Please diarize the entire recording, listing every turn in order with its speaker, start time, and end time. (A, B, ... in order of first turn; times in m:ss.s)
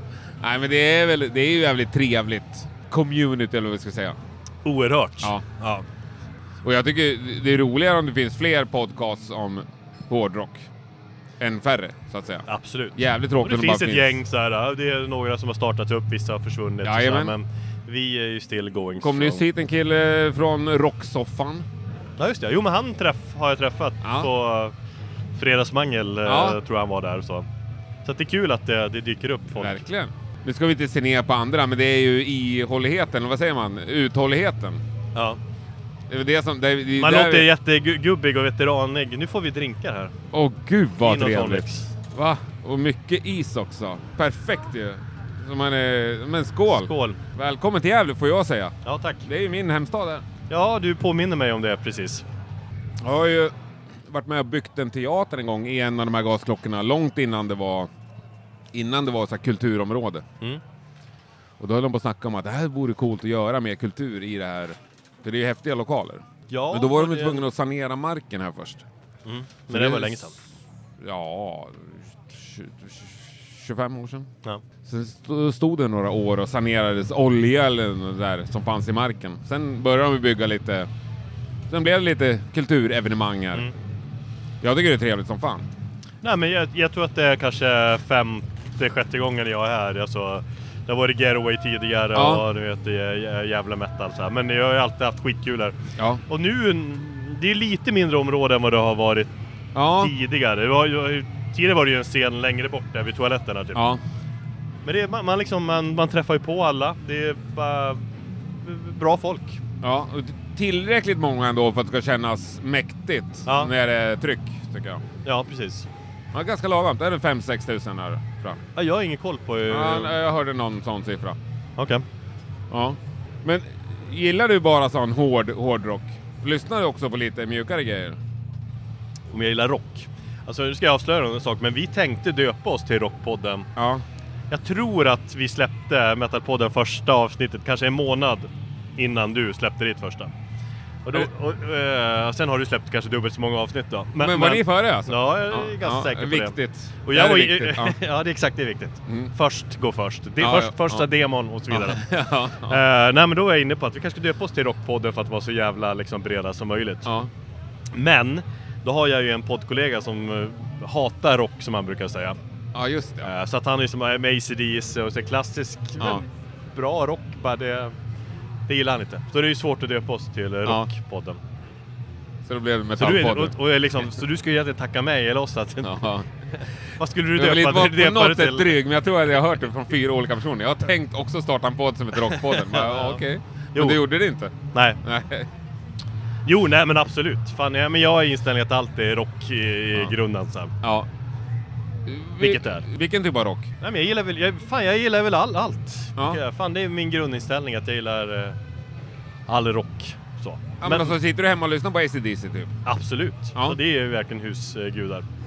0:00.4-0:04.2 A
0:04.6-0:05.8 B
0:06.6-0:10.7 A
0:11.4-0:14.2 A
0:12.5-0:19.4 B
0:16.8-0:17.3 A
0:19.0-0:21.6 A
0:22.2-0:24.7 B
0:24.0-0:24.3 A
0:25.4-0:27.4 B
0:26.2-0:26.6 A
0:28.0-0:29.8 B
0:29.6-0:34.8 A
0:36.1-0:37.5 A
0:37.0-0:40.1 B
0:40.3-0:50.2 A
0:41.0-0:41.9 B
0:46.7-0:47.2 B
0:48.8-0:49.2 B
0:50.5-0:52.2 B
0:53.0-0:53.5 A
0:54.1-0:57.9 A
0:58.7-1:00.2 A
1:01.6-1:08.8 A
1:06.5-1:07.4 B
1:09.2-1:10.3 B
1:09.7-1:10.3 A
1:11.0-1:14.3 A
1:14.8-1:20.9 A
1:21.7-1:23.6 A
1:24.6-1:25.7 A
1:26.2-1:35.8 B
1:32.1-1:32.4 A
1:36.3-1:39.3 B
1:39.7-1:40.1 A
1:40.0-1:43.8 B
1:43.7-1:44.0 A
1:44.8-1:49.6 B
1:49.8-1:55.0 A
1:53.4-1:53.7 B
1:55.2-1:55.8 B
1:56.3-1:58.6 A
1:58.7-2:00.1 B
1:59.7-2:01.4 A
2:01.8-2:02.0 B
2:02.7-2:08.2 A
2:09.3-2:13.7 B
2:13.8-2:14.0 A
2:14.5-2:20.3 B
2:21.0-2:32.0 B
2:24.2-2:28.0 A
2:30.4-2:31.1 A
2:31.7-2:32.8 A
2:32.7-2:37.1 B
2:37.9-2:42.4 B
2:42.7-2:43.3 A
2:43.2-2:47.9 B
2:48.7-2:51.4 B
2:52.4-2:53.5 A
2:53.0-2:55.9 B
2:55.8-2:56.3 A
2:57.0-2:58.8 B
2:57.4-3:05.4 A
3:02.3-3:03.2 B
3:03.7-3:04.0 B
3:04.7-3:05.0 B
3:06.4-3:10.7 B
3:10.8-3:11.1 A
3:12.1-3:13.7 A
3:12.4-3:12.8 B
3:13.8-3:18.6 B
3:19.5-3:21.1 B
3:20.8-3:22.7 A
3:22.8-3:25.2 B